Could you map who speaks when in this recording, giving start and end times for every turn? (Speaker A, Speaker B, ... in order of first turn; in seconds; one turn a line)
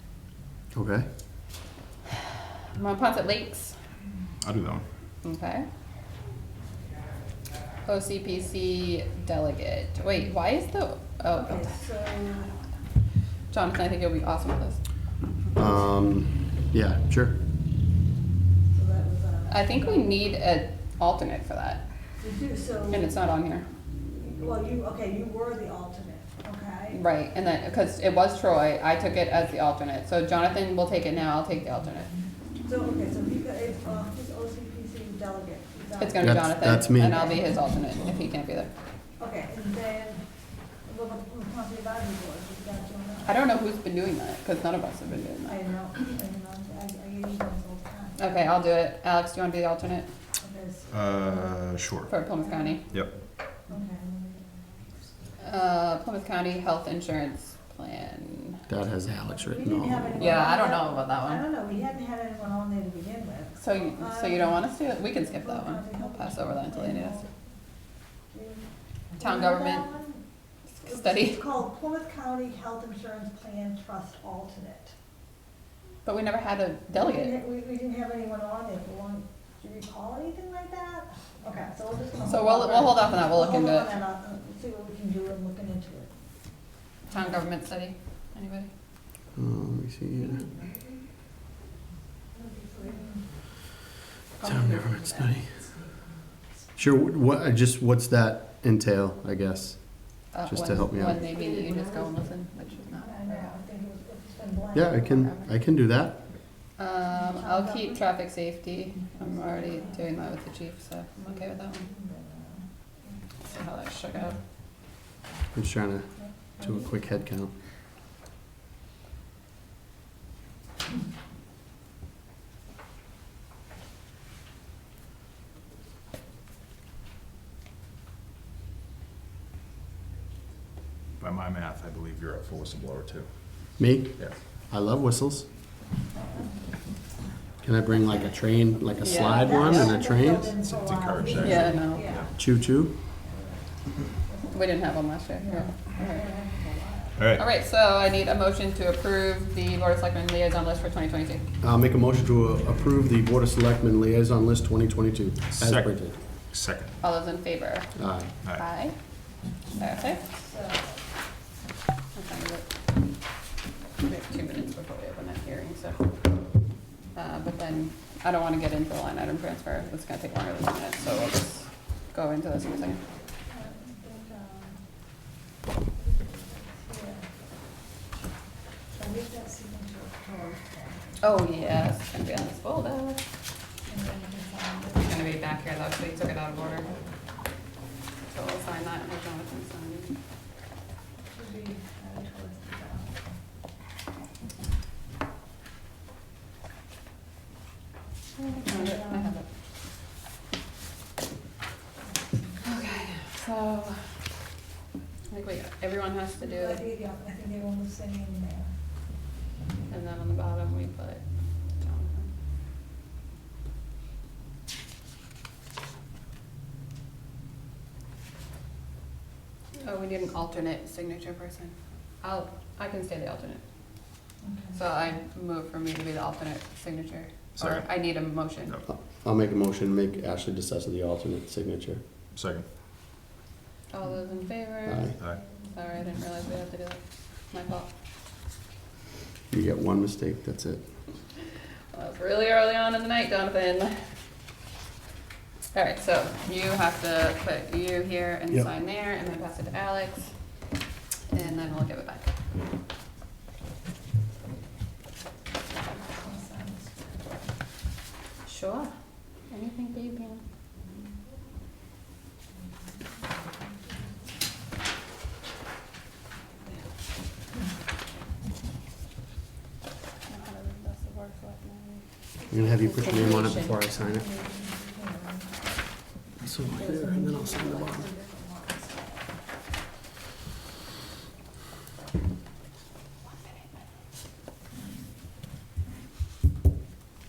Speaker A: 0.7-1.1
Speaker B: 2.7-3.7
Speaker C: 4.4-4.8
Speaker B: 5.2-5.7
Speaker B: 7.8-11.7
Speaker D: 11.3-12.5
Speaker B: 13.5-14.8
Speaker A: 15.5-17.3
Speaker D: 18.7-20.2
Speaker B: 19.5-21.8
Speaker D: 22.2-23.1
Speaker B: 22.9-23.6
Speaker D: 24.1-27.0
Speaker B: 26.9-32.1
Speaker D: 32.6-37.2
Speaker B: 36.0-38.7
Speaker A: 36.2-37.3
Speaker D: 39.2-40.2
Speaker D: 40.9-43.3
Speaker B: 43.2-45.6
Speaker D: 45.5-48.3
Speaker B: 48.2-50.1
Speaker D: 50.4-50.9
Speaker C: 50.9-52.1
Speaker B: 52.1-52.9
Speaker D: 52.5-52.8
Speaker D: 53.7-54.5
Speaker B: 55.4-58.6
Speaker A: 58.7-60.3
Speaker D: 59.3-67.3
Speaker B: 60.2-61.4
Speaker B: 63.6-67.3
Speaker D: 68.3-68.6
Speaker D: 69.2-70.2
Speaker B: 69.2-69.9
Speaker B: 70.8-71.4
Speaker D: 70.8-74.9
Speaker B: 76.0-77.4
Speaker D: 76.9-86.1
Speaker B: 82.2-83.9
Speaker B: 87.1-88.7
Speaker A: 89.3-90.4
Speaker D: 92.7-93.2
Speaker A: 94.4-95.5
Speaker A: 96.8-101.2
Speaker B: 100.3-103.5
Speaker D: 103.0-105.3
Speaker A: 104.7-106.2
Speaker B: 106.8-111.9
Speaker D: 107.2-108.0
Speaker D: 109.3-110.0
Speaker D: 111.8-112.6
Speaker B: 113.5-114.4
Speaker A: 115.5-117.5
Speaker C: 131.2-133.3
Speaker A: 133.8-135.5
Speaker D: 136.1-136.5
Speaker A: 137.6-140.5
Speaker B: 139.0-139.8
Speaker D: 139.1-142.3
Speaker C: 140.6-142.3
Speaker B: 141.4-142.0
Speaker A: 142.3-142.9
Speaker D: 143.2-144.5
Speaker B: 144.5-146.2
Speaker D: 145.4-147.2
Speaker C: 147.2-147.4
Speaker B: 147.4-151.4
Speaker A: 151.6-156.2
Speaker C: 155.5-156.0
Speaker C: 156.5-157.0
Speaker B: 157.0-157.9
Speaker A: 157.9-158.3
Speaker B: 158.5-158.9
Speaker B: 159.8-160.2
Speaker D: 159.8-161.0
Speaker B: 162.1-162.7
Speaker B: 164.0-166.0
Speaker B: 167.1-173.0
Speaker D: 173.5-174.8
Speaker D: 176.3-177.2
Speaker D: 178.9-181.2
Speaker B: 181.2-183.2
Speaker D: 183.9-185.1
Speaker B: 185.0-186.9
Speaker B: 188.3-190.1
Speaker D: 191.3-193.2
Speaker B: 198.4-199.4
Speaker D: 198.5-199.3
Speaker D: 202.0-202.9
Speaker B: 202.6-204.0
Speaker B: 205.3-206.8
Speaker D: 206.4-208.7
Speaker B: 209.9-211.2
Speaker B: 211.8-212.3
Speaker B: 219.8-223.6
Speaker D: 224.4-224.8
Speaker B: 224.7-228.8
Speaker C: 227.6-228.0
Speaker A: 228.9-232.0
Speaker C: 232.3-232.7
Speaker B: 233.9-237.9
Speaker A: 234.8-235.2
Speaker A: 239.5-240.8
Speaker B: 241.9-244.0
Speaker B: 245.7-250.3
Speaker B: 251.3-252.3
Speaker D: 256.0-257.1
Speaker B: 258.4-258.9
Speaker B: 259.5-260.4
Speaker B: 270.3-272.0
Speaker A: 272.5-274.3
Speaker B: 272.9-273.8
Speaker D: 274.1-275.7
Speaker A: 276.4-278.1
Speaker D: 276.7-279.1